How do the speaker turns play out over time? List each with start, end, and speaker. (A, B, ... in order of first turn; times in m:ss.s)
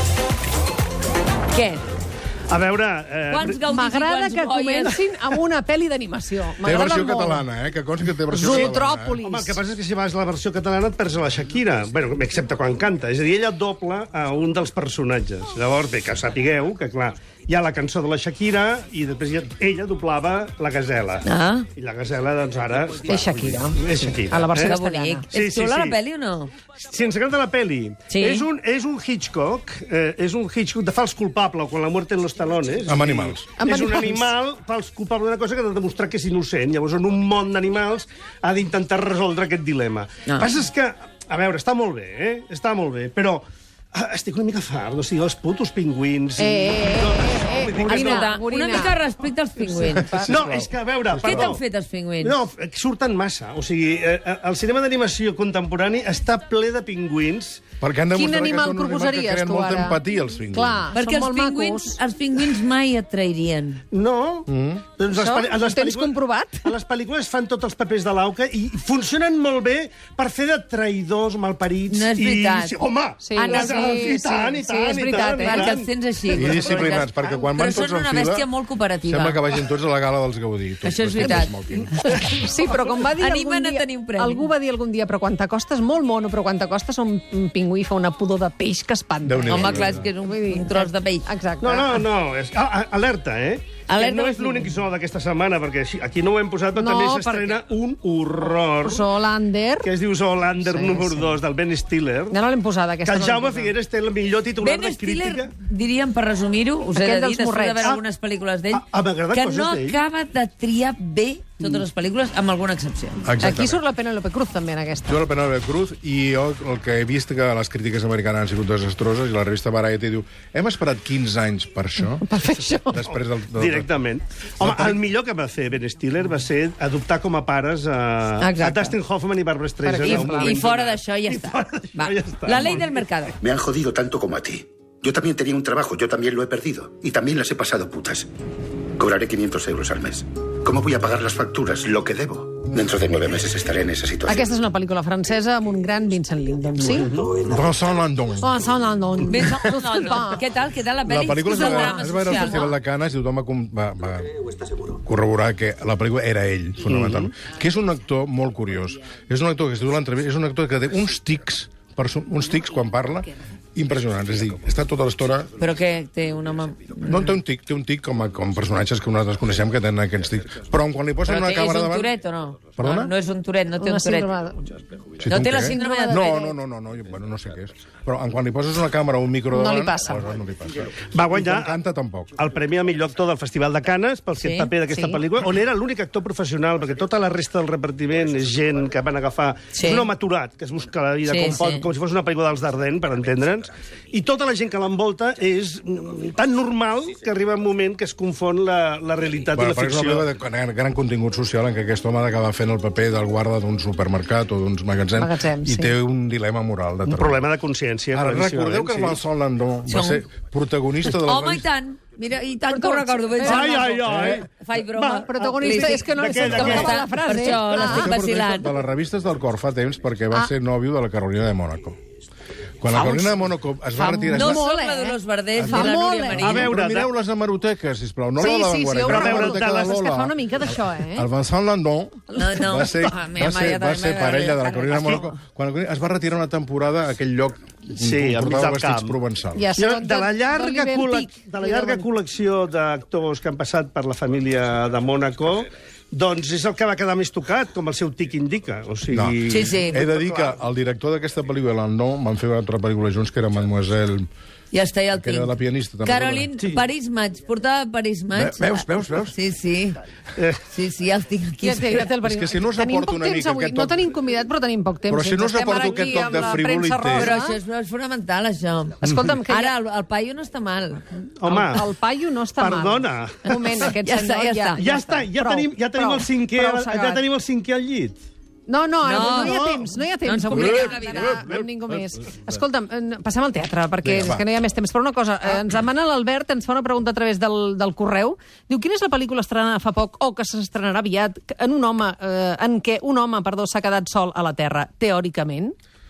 0:01.5-0:01.8 A
0:02.5-0:03.6 B
0:03.3-0:05.0 A
0:03.6-0:07.5 C
0:06.6-0:09.2 D
0:08.3-0:09.6 C
0:08.4-0:24.8 B
0:21.2-0:21.7 A
0:23.1-0:25.3 C
0:24.5-0:26.5 A
0:25.3-0:26.0 B
0:26.8-0:48.4 B
0:28.1-0:28.5 A
0:32.9-0:33.5 D
0:33.6-0:34.3 C
0:46.4-0:49.0 C
0:47.9-0:50.2 A
0:49.8-0:50.4 C
0:49.9-0:51.6 D
0:50.3-0:51.6 B
0:51.2-0:52.4 A
0:52.2-0:57.6 B
0:57.8-1:00.9 D
0:58.1-1:02.0 C
1:00.9-1:03.8 A
1:03.9-1:15.9 B
1:04.5-1:04.9 D
1:05.1-1:06.7 C
1:11.9-1:12.8 A
1:13.2-1:15.8 C
1:13.4-1:14.1 A
1:15.4-1:19.4 A
1:16.3-1:18.4 D
1:19.1-1:21.9 D
1:20.8-1:21.5 A
1:22.2-1:32.0 C
1:22.9-1:24.5 A
1:29.2-1:30.0 D
1:29.5-1:31.3 A
1:31.6-1:39.1 B
1:33.9-1:34.7 A
1:36.8-1:37.6 C
1:38.8-1:39.9 C
1:39.8-1:42.4 B
1:40.6-1:41.4 C
1:42.3-1:43.7 C
1:43.0-1:45.5 B
1:44.6-1:53.2 A
1:46.8-1:47.9 C
1:48.7-1:50.0 B
1:53.2-1:53.8 D
1:53.4-1:55.2 C
1:55.1-2:02.3 D
2:02.2-2:03.0 C
2:02.9-2:03.9 D
2:03.1-2:13.3 B
2:04.6-2:05.0 D
2:08.4-2:09.0 A
2:09.8-2:10.6 C
2:10.1-2:13.4 A
2:13.4-2:18.3 E
2:19.0-2:24.4 E
2:24.2-2:27.2 C
2:26.9-2:27.4 B
2:27.4-2:28.5 D
2:28.4-2:30.4 C
2:29.3-2:32.7 A
2:31.1-2:45.5 D
2:31.5-2:32.7 C
2:36.9-2:37.3 B
2:45.6-2:47.4 A
2:47.1-2:52.1 D
2:51.3-2:54.3 A
2:52.8-2:53.1 D
2:53.8-2:54.7 C
2:55.2-3:02.3 D
2:55.3-2:56.3 A
2:55.6-2:56.6 C
2:59.5-3:00.2 C
3:01.1-3:01.8 B
3:02.3-3:20.3 B
3:04.4-3:04.7 A
3:04.9-3:05.2 C
3:09.7-3:10.1 A
3:11.3-3:11.8 A
3:19.5-3:27.4 D
3:25.2-3:25.9 C
3:27.1-3:29.2 B
3:28.1-3:31.7 D
3:29.9-3:30.2 A
3:31.0-3:38.7 A
3:32.7-3:33.9 C
3:33.4-3:37.0 B
3:34.0-3:34.4 D
3:35.1-3:38.1 C
3:36.6-3:36.9 D
3:37.6-3:42.0 D
3:42.8-3:44.7 D
3:44.0-3:46.6 C
3:44.3-3:46.7 A
3:45.6-3:59.7 D
3:46.4-3:47.1 B
3:48.4-3:51.3 C
3:49.1-3:50.0 B
3:52.3-3:53.0 C
3:52.4-3:55.3 A
3:54.9-3:55.2 B
3:58.0-3:59.2 B
3:59.6-4:02.1 C
3:59.8-4:10.6 B
4:09.1-4:14.3 D
4:09.5-4:10.0 A
4:14.7-4:20.0 A
4:15.1-4:16.5 D
4:18.3-4:19.4 D
4:20.4-4:20.6 B
4:20.7-4:22.0 A
4:21.6-4:27.6 C
4:22.2-4:24.0 D
4:25.1-4:27.3 D
4:25.8-4:26.6 B
4:27.1-4:31.2 A
4:29.0-4:29.7 C
4:31.4-4:31.9 B
4:31.4-4:37.2 C
4:32.6-4:33.9 B
4:33.8-4:34.8 A
4:34.8-4:38.2 B
4:38.7-4:55.8 C
4:39.0-4:41.4 A
4:39.0-4:40.0 B
4:40.6-4:41.0 B
4:41.4-4:42.4 D
4:44.0-4:44.5 D